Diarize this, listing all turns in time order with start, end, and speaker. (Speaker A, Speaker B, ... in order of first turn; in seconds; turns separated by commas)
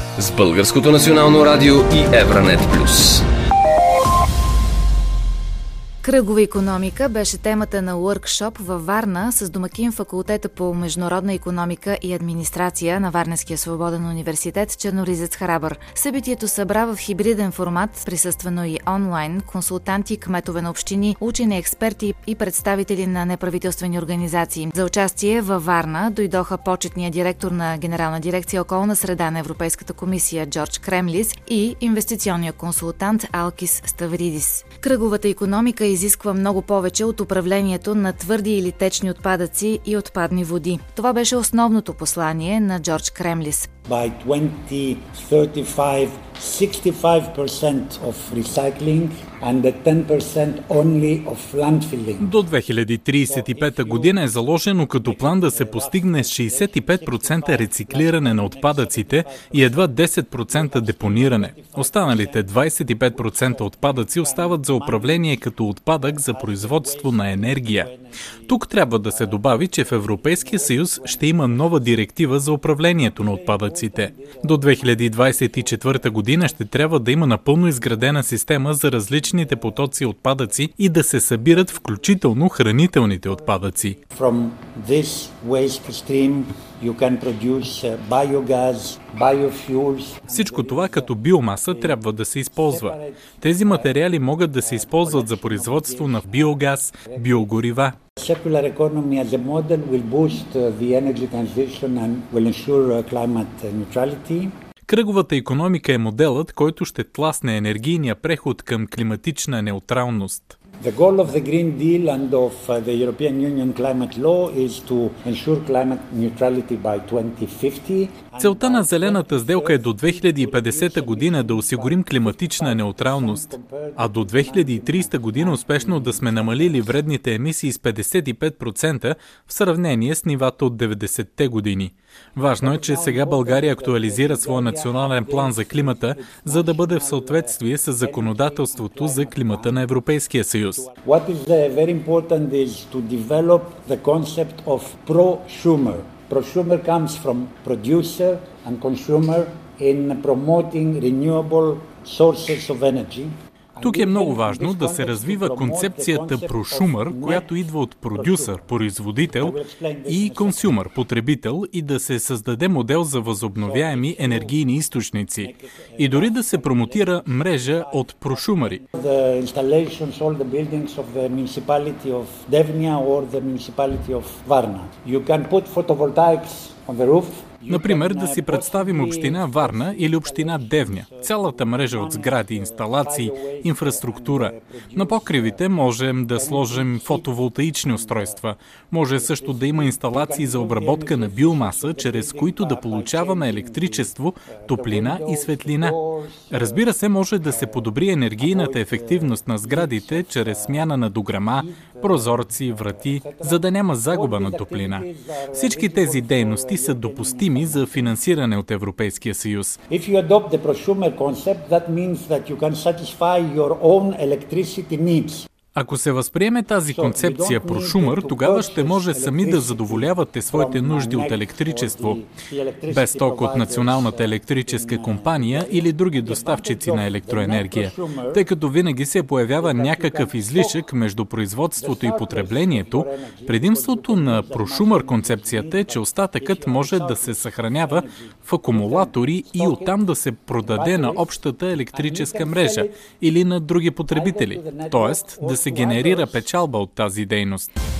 Speaker A: 0.2-3.2, Speaker B: 6.0-43.7, Speaker C: 43.9-52.3, Speaker D: 52.2-67.9, Speaker C: 53.2-54.4, Speaker C: 55.0-65.5, Speaker C: 66.0-72.1, Speaker D: 68.5-84.0, Speaker C: 72.9-77.1, Speaker C: 77.8-78.2, Speaker C: 79.1-80.7, Speaker C: 81.3-94.0, Speaker D: 90.3-97.9, Speaker C: 94.6-104.5, Speaker D: 104.9-110.6, Speaker C: 110.8-127.0, Speaker D: 118.4-140.9, Speaker C: 132.6-140.0, Speaker C: 140.7-158.6, Speaker D: 153.8-168.8, Speaker C: 159.3-160.8, Speaker C: 163.6-164.7, Speaker C: 165.4-185.6, Speaker D: 177.7-195.9, Speaker C: 186.3-188.4, Speaker C: 189.1-200.9, Speaker D: 196.5-209.8, Speaker C: 201.4-208.2, Speaker C: 209.9-215.5, Speaker D: 215.7-222.2, Speaker C: 216.9-228.5, Speaker D: 222.9-247.7, Speaker C: 229.6-230.9, Speaker C: 231.8-240.1, Speaker C: 240.6-243.1, Speaker C: 244.1-246.5